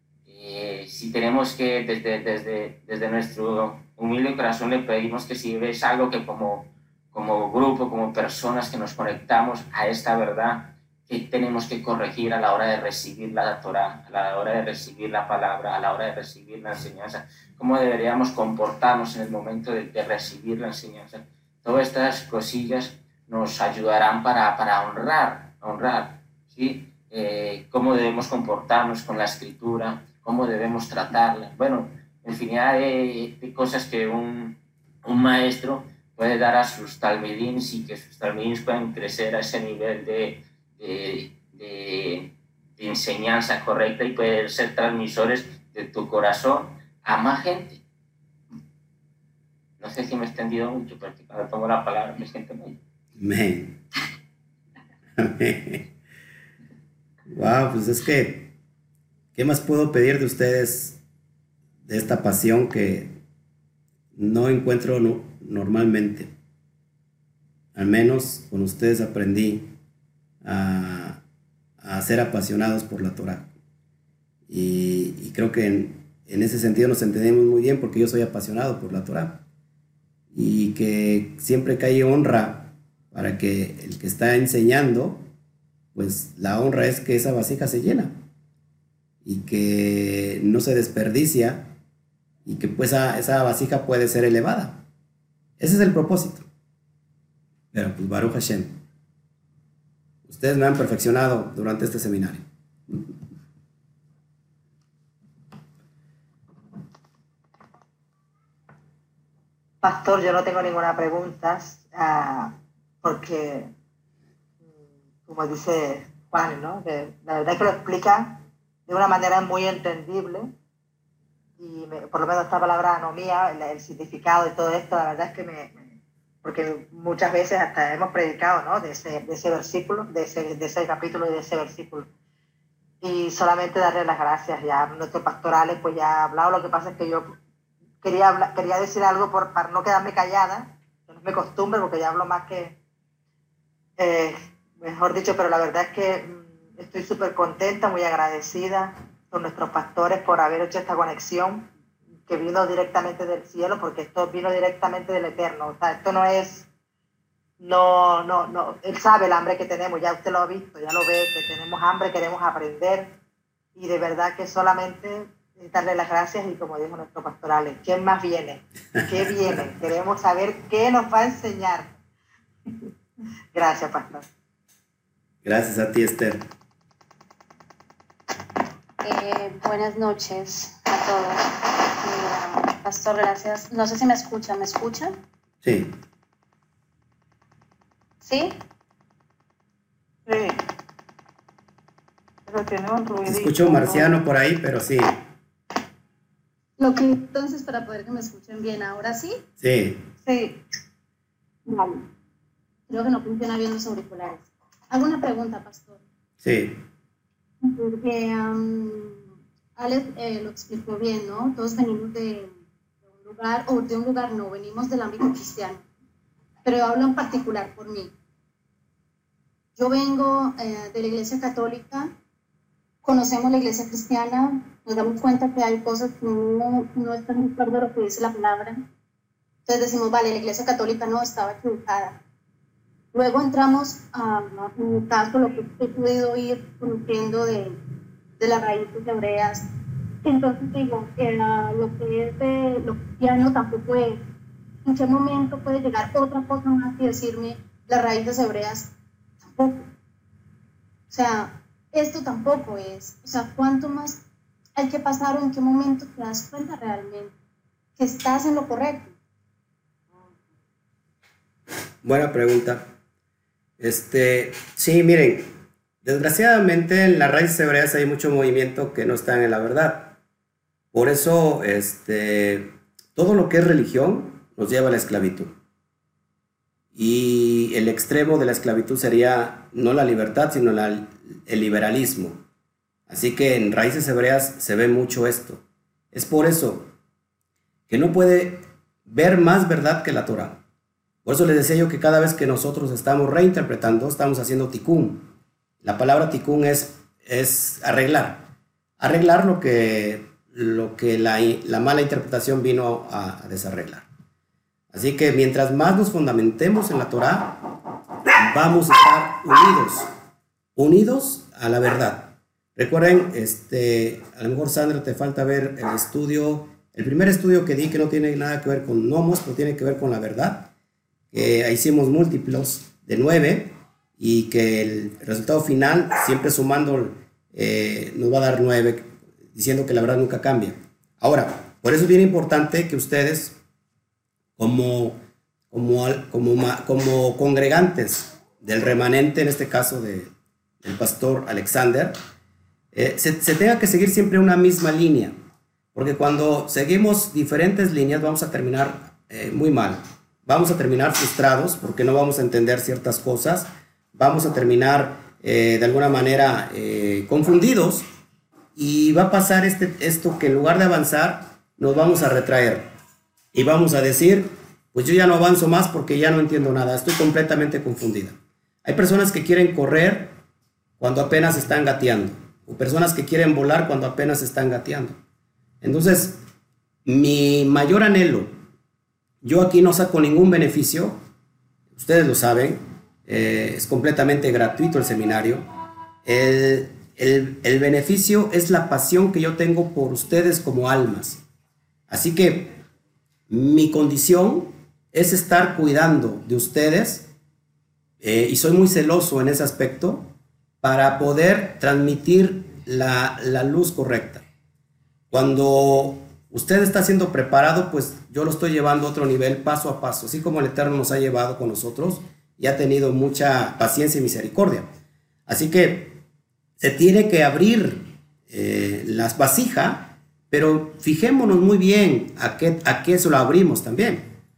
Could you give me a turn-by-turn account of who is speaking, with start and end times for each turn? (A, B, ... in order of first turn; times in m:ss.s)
0:00.2-0:47.8 A
0:49.8-0:52.8 A
0:53.2-0:53.8 B
0:55.2-0:55.8 B
0:57.3-0:58.5 B
0:59.4-1:01.0 B
1:01.9-1:03.1 B
1:04.1-1:06.3 B
1:07.7-1:09.7 B
1:10.4-1:11.2 B
1:11.8-1:13.5 B
1:14.5-1:19.4 B
1:20.3-1:25.2 B
1:25.9-1:28.1 B
1:29.2-1:31.7 B
1:32.4-1:34.8 B
1:35.6-1:36.4 B
1:37.7-1:38.8 B
1:40.2-1:43.1 B
1:49.8-1:53.7 C
1:55.2-2:00.5 C
2:01.6-2:12.1 C
2:13.0-2:17.4 C
2:18.0-2:22.8 C
2:24.0-2:31.7 C
2:32.3-2:36.7 C
2:37.6-2:43.1 C
2:43.7-2:52.0 C
2:53.5-2:54.2 C
2:55.4-2:56.5 B
2:59.0-3:01.4 D
3:02.0-3:05.1 D
3:05.6-3:05.9 B
3:08.2-3:08.6 D
3:10.2-3:10.6 E
3:12.4-3:14.2 E
3:13.2-3:15.2 B
3:16.8-3:19.4 D
3:19.6-3:20.0 B
3:20.2-3:20.6 E
3:21.6-3:22.0 D
3:22.9-3:26.0 D
3:26.4-3:26.8 B
3:27.6-3:32.5 D
3:33.1-3:35.8 D
3:36.6-3:38.1 D
3:39.8-3:42.1 D
3:43.0-3:48.8 D
3:49.6-3:52.2 D
3:53.1-3:57.8 D
3:58.4-3:59.6 D
4:00.2-4:04.2 D
4:04.8-4:08.9 D
4:09.4-4:09.8 D
4:11.1-4:14.2 D
4:14.8-4:17.3 D
4:18.0-4:19.1 D
4:22.0-4:22.8 B
4:23.8-4:25.5 B
4:26.0-4:30.2 B
4:30.9-4:35.5 B
4:36.9-4:42.4 B
4:43.1-4:46.9 B
4:47.9-4:50.6 B
4:51.2-4:55.2 B
4:55.8-4:58.4 B
4:59.0-5:04.0 B
5:04.9-5:07.7 B
5:08.4-5:10.1 B
5:10.8-5:20.7 B
5:21.3-5:33.6 B
5:34.6-5:35.2 B
5:35.7-5:40.3 B
5:40.8-5:42.2 B
5:42.9-5:45.3 B
5:45.9-5:58.0 B
5:58.7-6:02.9 B
6:03.5-6:10.3 B
6:11.0-6:15.2 B
6:15.8-6:16.4 B
6:17.0-6:18.5 B
6:19.4-6:21.2 B
6:21.9-6:25.6 B
6:26.2-6:31.4 B
6:32.1-6:32.8 B
6:33.5-6:37.3 B
6:38.2-6:40.3 B
6:40.8-6:44.4 B
6:45.3-6:54.9 B
6:55.5-6:56.2 B
6:56.8-7:04.3 B